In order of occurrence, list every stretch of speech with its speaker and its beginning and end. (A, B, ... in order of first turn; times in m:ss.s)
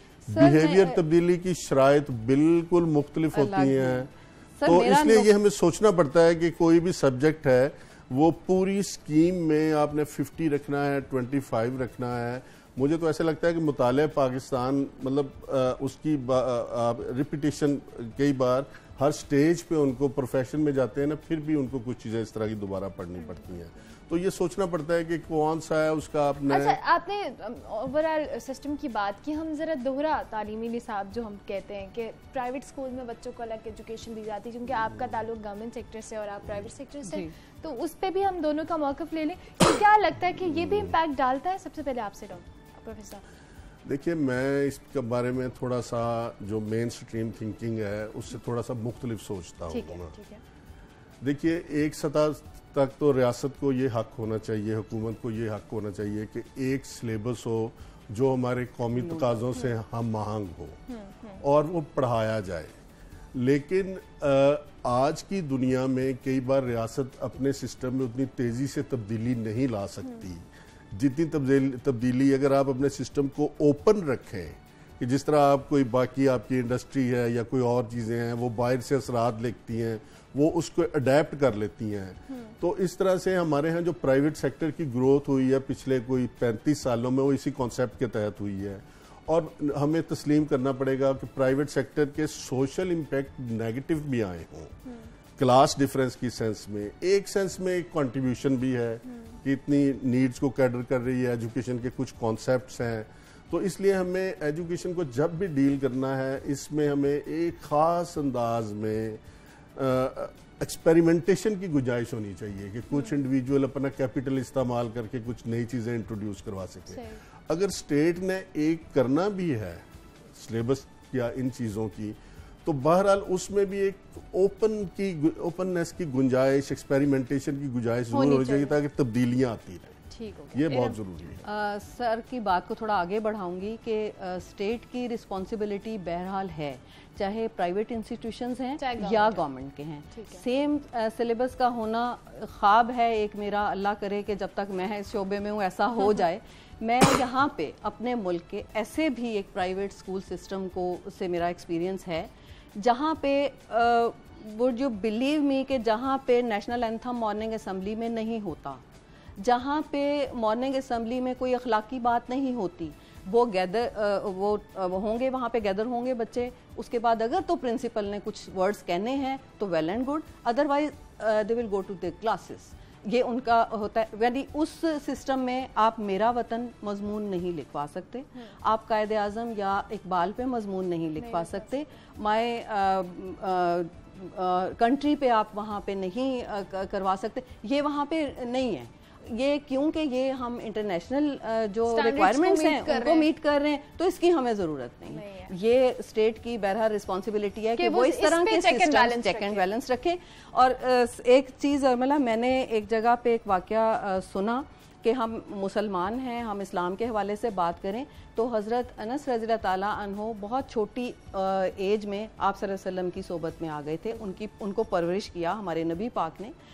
0:00.3-0:01.0 A
0:00.3-0:04.1 B
0:03.3-0:05.4 A
0:04.6-0:26.8 B
0:26.4-0:43.3 C
0:43.8-0:50.2 B
0:49.7-0:50.4 C
0:51.2-1:00.8 B
1:00.9-1:01.4 C
1:01.4-1:02.7 B
1:03.3-1:34.7 B
1:35.4-1:49.2 B
1:49.8-1:59.8 B
1:56.9-1:57.2 C
2:00.4-2:10.0 B
2:08.1-2:08.8 C
2:10.1-2:11.0 C
2:10.5-2:11.4 B
2:11.4-2:38.8 A
2:18.8-2:19.4 C
2:20.1-2:20.4 C
2:39.4-3:36.6 A
3:01.2-3:01.7 C
3:11.9-3:13.3 C
3:15.1-3:15.6 C
3:17.8-3:19.6 C